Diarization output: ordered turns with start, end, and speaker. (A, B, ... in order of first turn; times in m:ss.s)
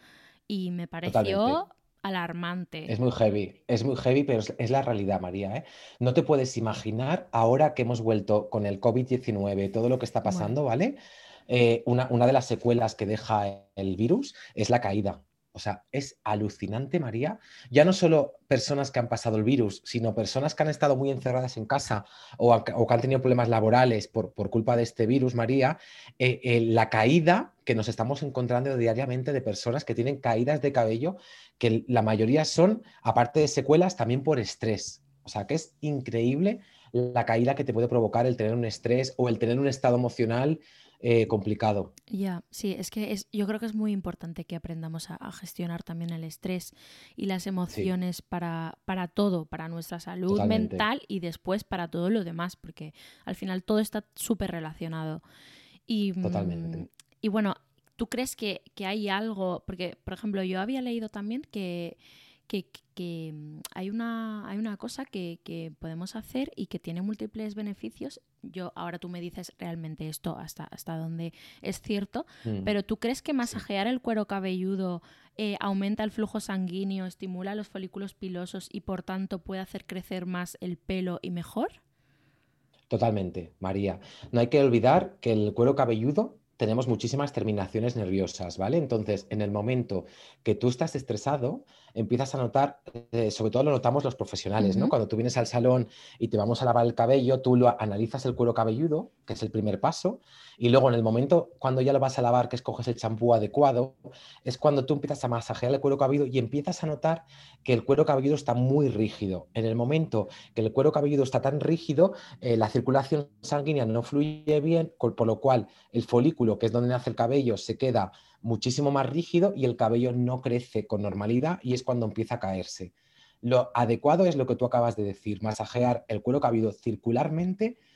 0:00.5-0:02.9 A
0:01.0-0:01.6 B
0:02.9-0:41.9 B
0:10.2-0:10.5 A
0:42.1-0:55.2 A
0:50.3-0:50.8 B
0:55.9-1:02.0 A
0:56.2-0:56.8 B
1:02.5-1:21.7 A
1:12.4-1:12.7 B
1:22.9-2:07.8 B
1:34.6-1:34.9 A